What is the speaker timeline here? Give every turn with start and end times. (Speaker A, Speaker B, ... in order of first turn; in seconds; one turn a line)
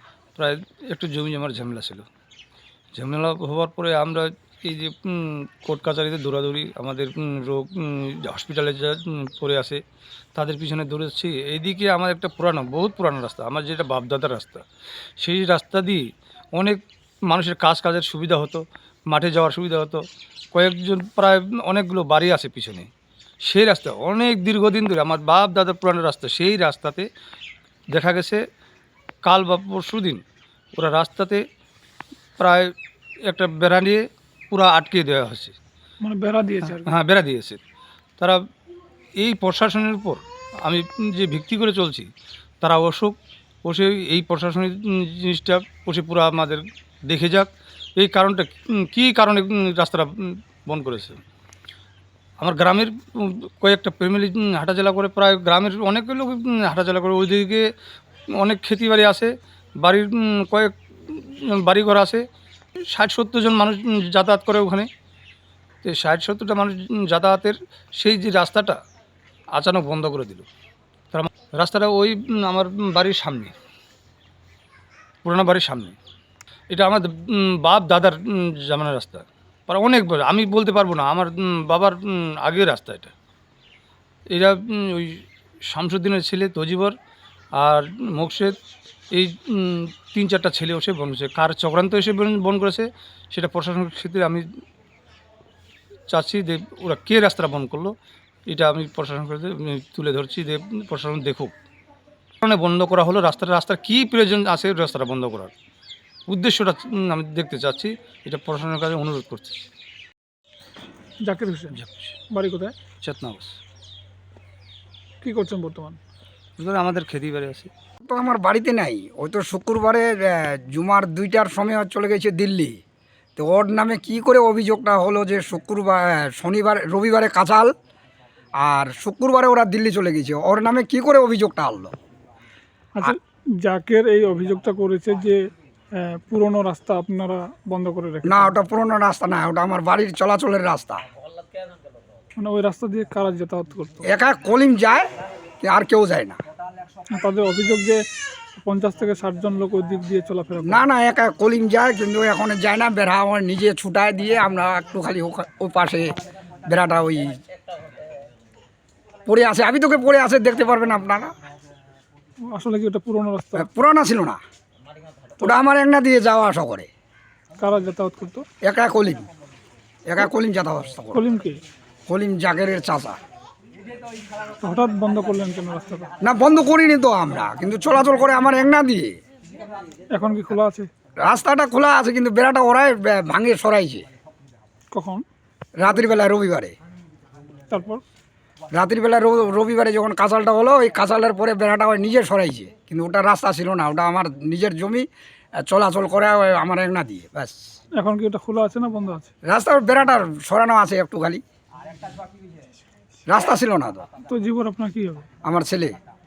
Speaker A: 0.4-2.0
Speaker A: 3.0-9.8
Speaker A: 10.3-14.7
Speaker A: 15.2-16.0
Speaker A: 16.6-20.0
Speaker A: 20.5-22.9
Speaker A: 23.4-27.1
Speaker A: 27.9-28.4
Speaker A: 29.2-30.2
Speaker A: 30.8-31.4
Speaker A: 32.4-32.7
Speaker A: 33.3-35.6
Speaker B: 36.0-36.9
Speaker A: 36.7-37.6
Speaker A: 39.2-42.1
Speaker A: 42.6-51.2
Speaker A: 52.4-57.6
Speaker A: 58.4-59.3
Speaker A: 59.8-62.2
Speaker A: 62.8-64.9
Speaker A: 65.8-68.8
Speaker A: 69.5-70.5
Speaker A: 71.1-73.5
Speaker A: 75.2-76.0
Speaker A: 76.7-83.1
Speaker A: 84.3-87.0
Speaker A: 87.6-88.6
Speaker A: 89.1-94.4
Speaker A: 96.1-97.9
Speaker A: 98.5-101.5
Speaker A: 102.4-105.5
Speaker A: 106.3-109.6
Speaker B: 111.2-111.8
Speaker A: 111.7-112.2
Speaker B: 112.3-112.8
Speaker A: 113.0-113.6
Speaker B: 115.2-116.0
Speaker A: 116.6-117.7
Speaker C: 118.0-122.8
Speaker C: 123.4-127.7
Speaker C: 128.6-132.0
Speaker B: 132.9-138.5
Speaker C: 138.3-141.0
Speaker B: 142.4-144.0
Speaker C: 144.1-145.1
Speaker C: 145.6-146.4
Speaker B: 147.1-148.0
Speaker B: 148.6-150.8
Speaker C: 150.7-156.2
Speaker C: 156.7-157.4
Speaker C: 159.3-161.3
Speaker B: 162.5-163.7
Speaker C: 163.6-164.4
Speaker C: 165.4-166.9
Speaker B: 167.6-168.4
Speaker C: 168.6-169.3
Speaker C: 170.1-171.2
Speaker B: 171.1-171.6
Speaker C: 172.1-173.2
Speaker B: 174.6-176.1
Speaker C: 176.2-179.2
Speaker B: 180.1-180.9
Speaker C: 181.2-184.1
Speaker B: 184.9-185.2
Speaker C: 185.8-186.7
Speaker B: 187.7-188.0
Speaker C: 188.7-195.1
Speaker C: 195.6-197.7
Speaker B: 198.0-199.3
Speaker C: 199.5-201.4
Speaker C: 203.3-204.1
Speaker B: 204.2-205.3
Speaker C: 205.4-206.0